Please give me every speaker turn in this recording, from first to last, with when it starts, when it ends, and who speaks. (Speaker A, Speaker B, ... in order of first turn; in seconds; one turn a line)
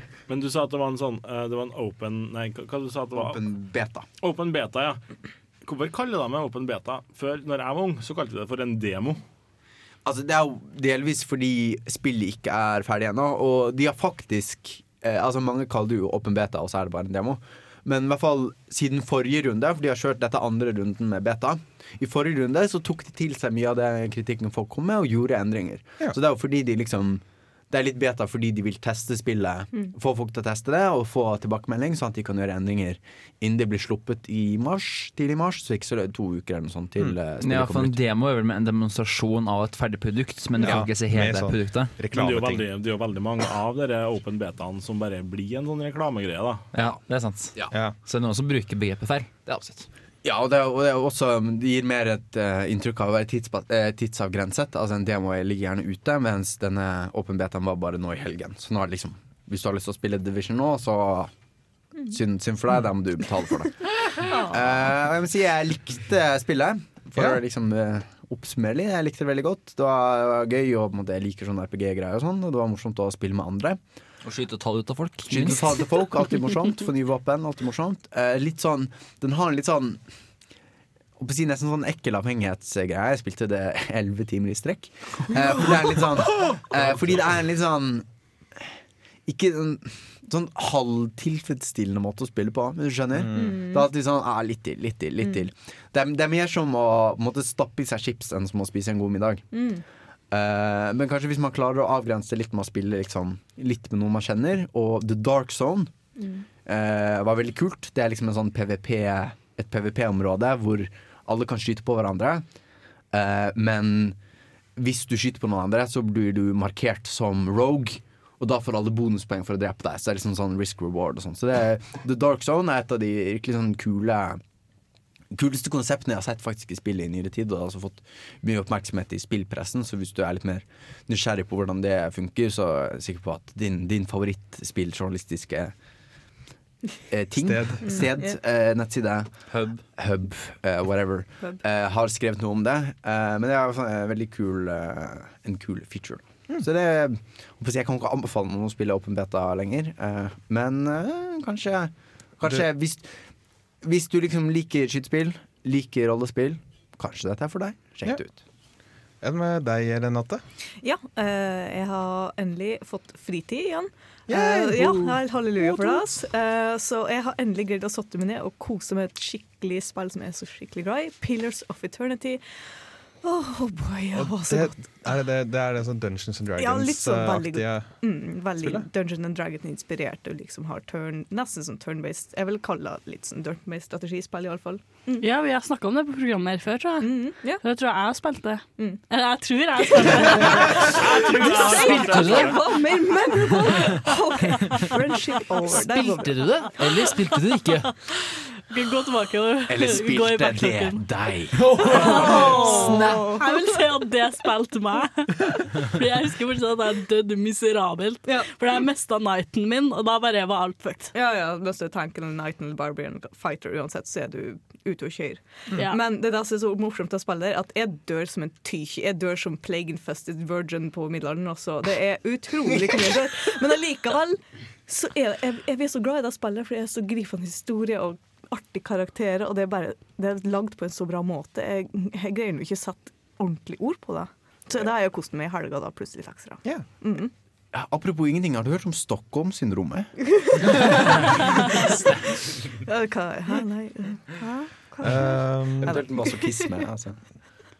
Speaker A: 0.3-3.4
Speaker B: 3.1-4.1
Speaker A: 4.2-5.0
Speaker A: 5.6-9.2
Speaker B: 10.1-38.0
Speaker C: 37.4-41.9
Speaker D: 40.6-42.6
Speaker A: 42.1-46.6
Speaker C: 46.7-49.9
Speaker D: 47.7-48.0
Speaker B: 50.2-61.3
Speaker B: 62.1-73.8
Speaker E: 64.3-64.7
Speaker C: 74.2-75.8
Speaker B: 75.3-80.0
Speaker B: 81.2-88.7
Speaker B: 89.3-99.5
Speaker D: 93.2-93.5
Speaker E: 93.3-93.9
Speaker E: 99.5-99.8
Speaker B: 100.3-105.9
Speaker E: 106.2-106.5
Speaker B: 106.7-112.5
Speaker B: 113.1-114.2
Speaker B: 114.8-124.4
Speaker B: 125.3-135.7
Speaker B: 137.1-139.3
Speaker D: 137.4-138.1
Speaker E: 137.9-138.3
Speaker C: 139.5-139.8
Speaker B: 139.9-153.2
Speaker B: 153.8-158.4
Speaker D: 159.2-160.4
Speaker E: 160.8-172.4
Speaker D: 164.3-166.0
Speaker E: 173.2-175.0
Speaker D: 174.1-178.0
Speaker E: 176.6-185.3
Speaker D: 178.6-178.9
Speaker F: 185.2-191.0
Speaker E: 187.0-187.6
Speaker E: 189.9-196.3
Speaker A: 190.8-192.7
Speaker C: 191.6-192.7
Speaker C: 195.7-197.9
Speaker F: 198.7-201.0
Speaker B: 199.7-201.6
Speaker F: 201.7-211.1
Speaker C: 201.8-203.3
Speaker E: 202.0-203.9
Speaker E: 211.1-237.3
Speaker F: 215.8-216.1
Speaker B: 237.7-240.1
Speaker E: 240.4-241.1
Speaker E: 242.7-246.9
Speaker D: 245.0-246.0
Speaker B: 245.8-247.2